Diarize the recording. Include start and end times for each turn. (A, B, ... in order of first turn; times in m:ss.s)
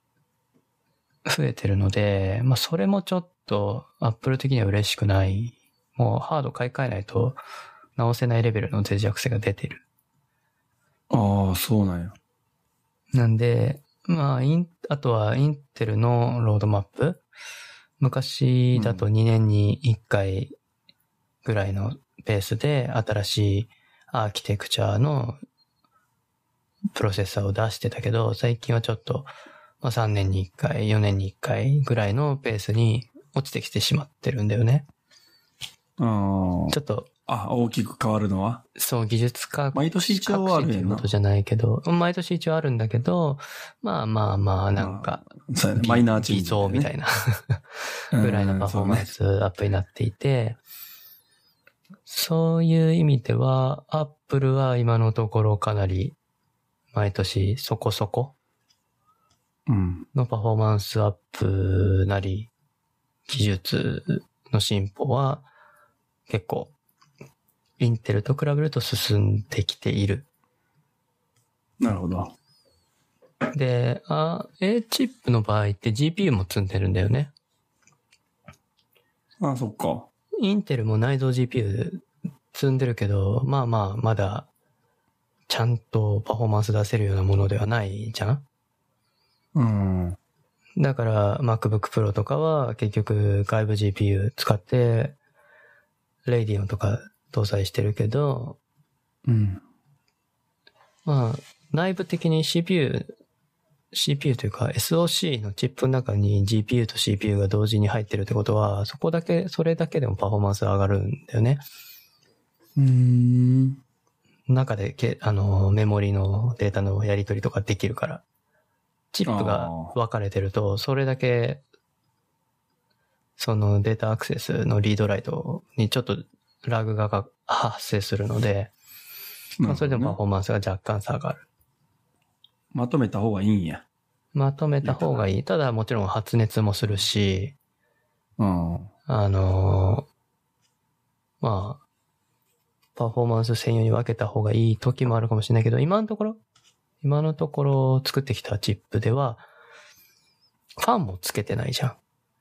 0:01.3-0:07.4 A
0:08.0-0:09.8 A
0:11.1-0:12.2 B
0:13.1-0:17.2 A
0:18.0-0:20.6 A
0:18.7-0:19.1 B
0:21.4-0:25.4 A
0:26.9-0:29.3 A
0:29.8-0:34.9 A
0:36.0-0:38.6 B
0:36.7-0:37.1 A
0:38.8-0:45.2 A
0:39.7-0:41.1 B
0:44.8-0:46.9 B
0:45.8-0:47.6 A
0:48.1-0:49.1 B
0:48.2-0:50.6 A
0:52.1-0:56.2 A
0:56.9-0:58.4 A
0:59.7-1:00.1 B
1:00.2-1:02.5 A
1:03.3-1:05.5 A
1:06.3-1:06.7 A
1:07.8-1:10.3 A
1:11.8-1:12.3 B
1:13.5-1:17.3 A
1:19.4-1:20.1 B
1:20.4-1:24.5 A
1:25.5-1:28.4 A
1:29.6-1:30.2 B
1:30.8-1:35.2 A
1:36.3-1:38.6 A
1:39.3-1:39.6 B
1:41.1-1:43.2 A
1:43.9-1:51.6 A
1:52.8-1:53.8 B
1:54.5-1:58.2 A
1:59.1-2:01.6 A
1:59.3-2:00.0 B
2:03.4-2:08.7 A
2:09.6-2:10.2 B
2:09.6-2:11.4 A
2:12.7-2:13.8 B
2:14.3-2:17.6 A
2:14.8-2:15.2 B
2:18.4-2:18.9 B
2:19.1-2:20.1 A
2:21.4-2:21.8 A
2:23.0-2:26.4 A
2:27.0-2:29.5 A
2:30.8-2:32.0 A